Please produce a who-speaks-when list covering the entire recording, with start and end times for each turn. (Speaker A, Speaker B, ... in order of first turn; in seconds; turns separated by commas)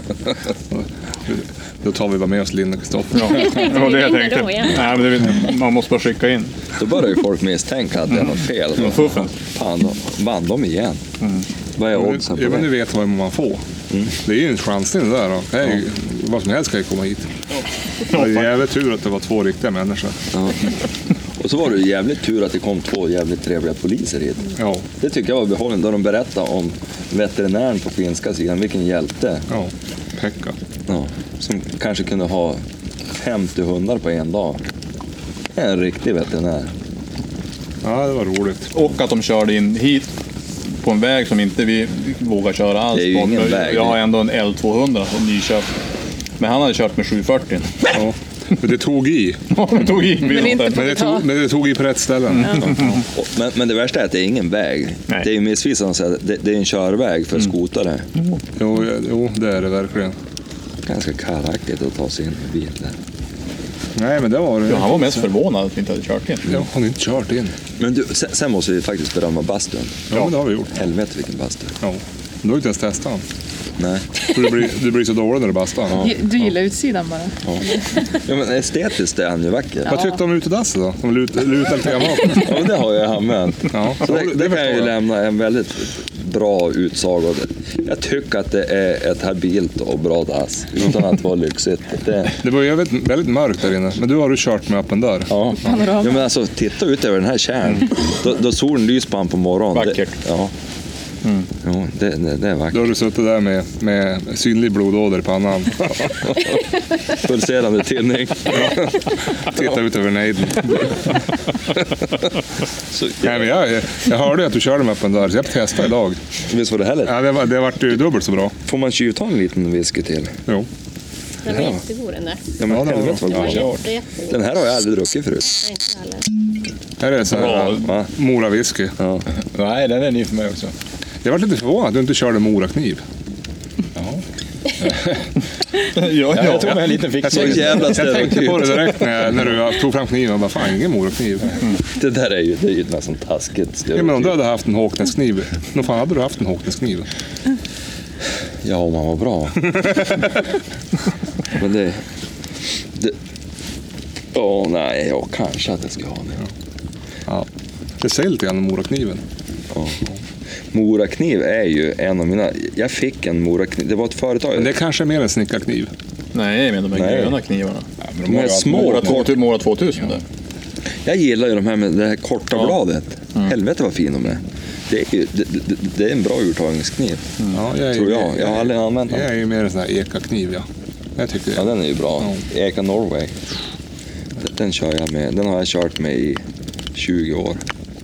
Speaker A: 0.7-3.6, Speaker B: 3.1-6.5, Speaker C: 3.2-4.8, Speaker D: 6.7-11.0, Speaker B: 8.8-9.3, Speaker B: 11.2-11.4, Speaker D: 11.8-12.7, Speaker A: 11.9-13.6, Speaker A: 14.2-17.3, Speaker B: 18.0-18.5, Speaker A: 18.1-20.2, Speaker D: 20.3-20.7, Speaker D: 21.4-29.4, Speaker A: 24.6-24.9, Speaker A: 29.5-30.5, Speaker D: 30.9-32.6, Speaker D: 33.1-34.6, Speaker D: 35.5-36.7, Speaker A: 37.8-38.7, Speaker B: 38.7-40.1, Speaker B: 40.7-45.7, Speaker D: 42.9-44.0, Speaker B: 46.4-47.7, Speaker A: 47.9-49.5, Speaker B: 49.5-50.9, Speaker E: 50.2-51.3, Speaker A: 50.5-52.7, Speaker B: 52.3-53.0, Speaker D: 52.6-58.1, Speaker A: 58.6-60.2, Speaker D: 60.8-63.0, Speaker A: 64.0-65.2, Speaker B: 64.7-66.5, Speaker A: 66.5-67.5, Speaker D: 67.8-70.1, Speaker A: 70.1-70.8, Speaker D: 70.7-71.7, Speaker A: 71.8-73.2, Speaker D: 73.8-74.2, Speaker A: 74.3-76.2, Speaker D: 75.9-76.2, Speaker E: 75.9-78.0, Speaker D: 77.5-79.9, Speaker E: 79.8-80.1, Speaker A: 79.9-82.7, Speaker D: 82.3-92.4, Speaker A: 83.7-84.9, Speaker A: 92.4-95.8, Speaker D: 95.3-100.5, Speaker E: 95.5-96.2, Speaker B: 99.7-100.2, Speaker D: 101.6-102.9, Speaker A: 102.7-106.5, Speaker D: 106.2-106.5, Speaker D: 107.1-109.1, Speaker A: 109.3-111.2, Speaker D: 112.9-113.5, Speaker A: 113.2-116.2, Speaker D: 116.4-117.2, Speaker A: 117.0-118.5, Speaker D: 118.7-120.3, Speaker C: 121.4-122.5, Speaker D: 121.5-121.8, Speaker D: 122.6-125.6, Speaker A: 122.7-123.5, Speaker C: 123.2-124.4, Speaker C: 125.6-126.3, Speaker A: 127.0-129.0, Speaker B: 127.3-127.9, Speaker D: 127.5-128.1, Speaker D: 129.0-129.2, Speaker F: 129.5-130.7, Speaker A: 131.2-133.0, Speaker F: 133.9-134.2, Speaker F: 134.8-135.3, Speaker B: 135.9-137.0, Speaker F: 136.3-138.1, Speaker A: 137.2-141.6, Speaker D: 137.2-138.9, Speaker D: 141.8-144.3, Speaker A: 143.9-147.1, Speaker D: 148.6-150.2, Speaker D: 151.5-152.0, Speaker D: 154.3-156.4, Speaker A: 158.0-159.2, Speaker D: 159.7-160.0, Speaker D: 160.7-164.7, Speaker A: 164.6-165.9, Speaker B: 166.3-167.9, Speaker D: 166.9-167.3, Speaker F: 168.0-169.3, Speaker D: 168.2-169.4, Speaker B: 168.7-170.2, Speaker D: 171.0-177.3, Speaker A: 177.5-180.7, Speaker D: 177.9-179.3, Speaker A: 181.2-182.4, Speaker D: 181.5-183.3, Speaker D: 184.4-186.4, Speaker D: 186.9-187.6